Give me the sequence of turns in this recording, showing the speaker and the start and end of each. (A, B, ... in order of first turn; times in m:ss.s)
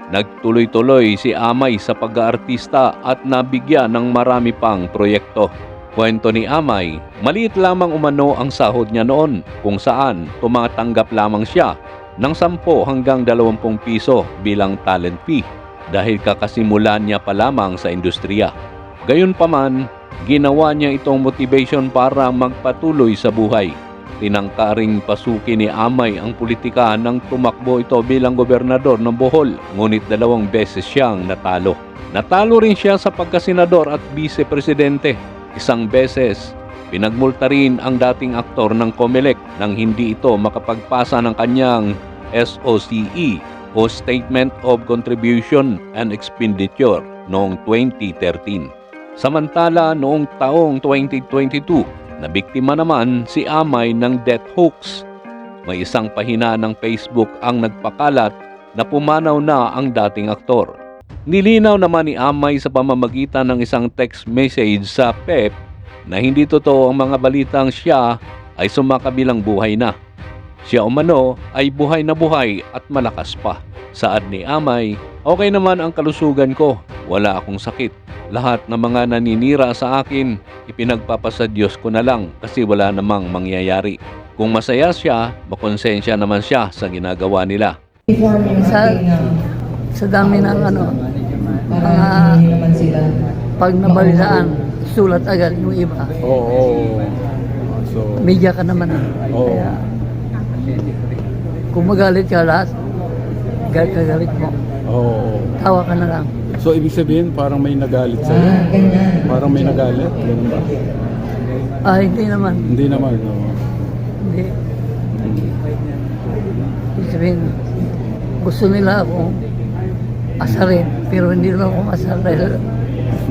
0:00.1-0:18.5 A
0:19.1-0:55.0 A
0:55.7-1:00.7 A
1:01.3-1:05.5 A
1:06.1-1:08.1 A
1:08.6-1:09.9 A
1:10.7-1:27.8 A
1:28.5-1:29.2 B
1:30.0-1:31.0 B
1:31.7-1:32.9 B
1:33.6-1:36.1 B
1:36.2-1:37.2 C
1:37.9-1:38.2 C
1:38.2-1:39.7 B
1:39.3-1:39.8 C
1:41.7-1:42.7 B
1:43.7-1:44.6 B
1:44.9-1:45.6 C
1:45.6-1:46.3 B
1:46.6-1:50.7 C
1:51.8-1:52.7 B
1:52.7-1:53.6 C
1:54.2-1:54.5 B
1:55.2-1:55.5 C
1:57.0-1:57.6 B
1:58.4-1:59.4 B
2:00.4-2:02.6 B